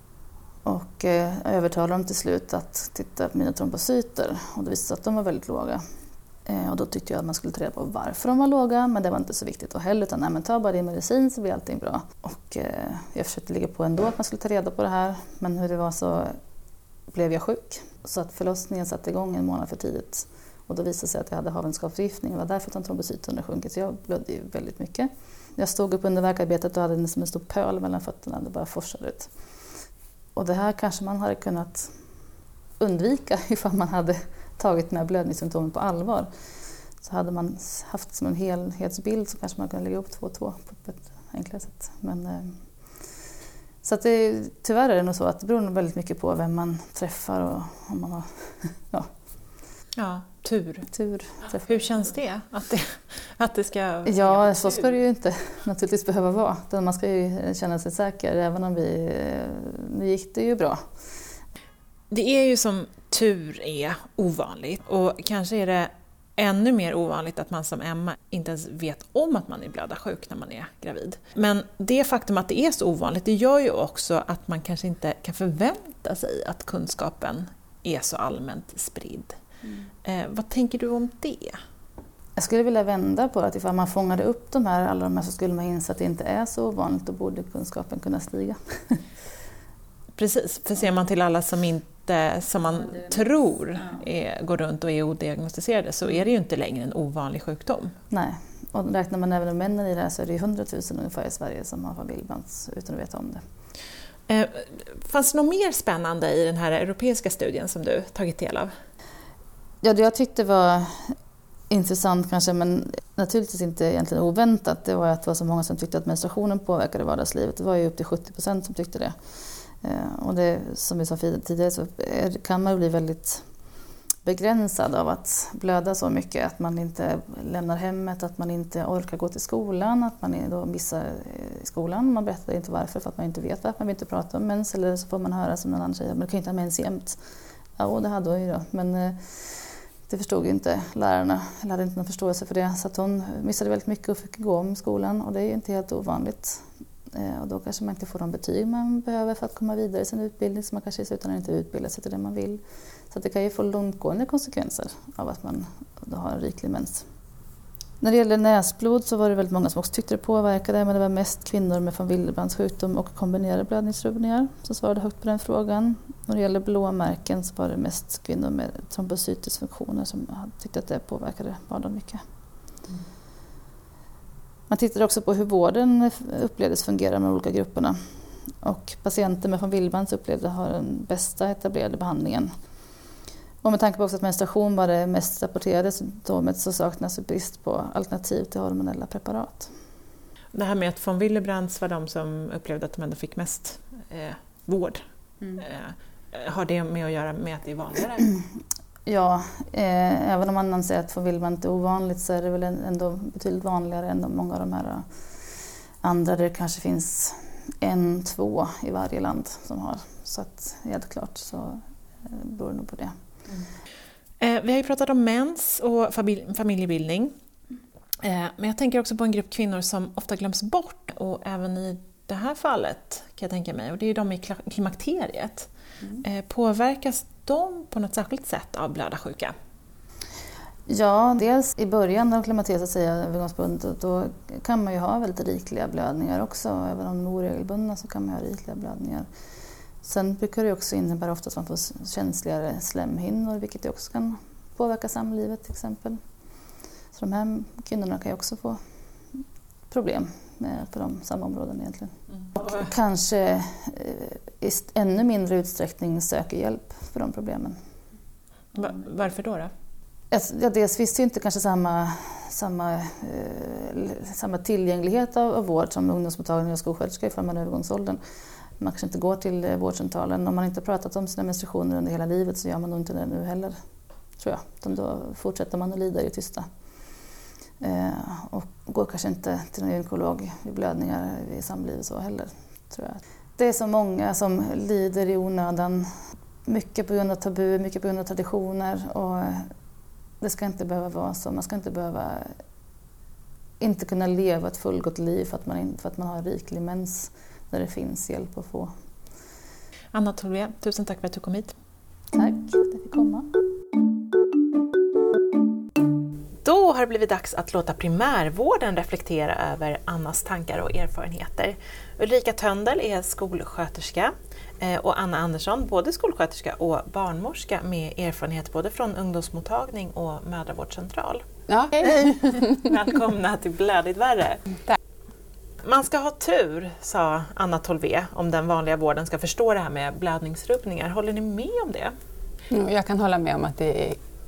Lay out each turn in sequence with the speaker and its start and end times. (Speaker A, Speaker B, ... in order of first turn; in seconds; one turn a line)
Speaker A: 0.7-5.8
Speaker A: 6.5-16.4
Speaker A: 17.1-29.3
Speaker A: 30.4-32.0
Speaker A: 32.8-36.3
Speaker A: 37.0-43.1
Speaker A: 43.8-49.1
Speaker B: 50.0-50.9
Speaker A: 50.9-51.8
Speaker B: 51.7-55.0
Speaker A: 54.1-60.9
Speaker B: 62.1-79.4
Speaker B: 80.0-81.6
Speaker A: 82.4-89.0
Speaker B: 90.2-97.9
Speaker A: 98.1-103.4
Speaker B: 104.3-108.7
Speaker A: 109.8-111.2
Speaker A: 111.7-119.2
Speaker A: 119.8-123.5
Speaker A: 124.2-137.2
Speaker A: 137.8-157.1
Speaker A: 158.0-172.2
Speaker A: 174.7-182.5
Speaker A: 183.6-189.7
Speaker B: 190.5-195.0
Speaker B: 195.6-198.3
Speaker A: 199.1-213.2
Speaker B: 214.4-217.3
Speaker B: 218.2-225.7
Speaker B: 226.2-229.5
Speaker A: 230.9-239.3
Speaker A: 240.0-246.2
Speaker A: 247.1-248.8
Speaker A: 249.3-257.8
Speaker B: 258.8-259.7
Speaker A: 260.3-268.2
Speaker A: 268.8-273.8
Speaker A: 274.4-276.7
Speaker A: 277.8-289.7
Speaker A: 290.4-292.6
Speaker A: 293.8-298.9
Speaker B: 300.1-301.7
Speaker A: 302.3-303.5
Speaker B: 306.6-321.4
Speaker C: 321.7-322.8
Speaker B: 322.2-324.6
Speaker B: 325.8-332.1
Speaker C: 332.7-334.2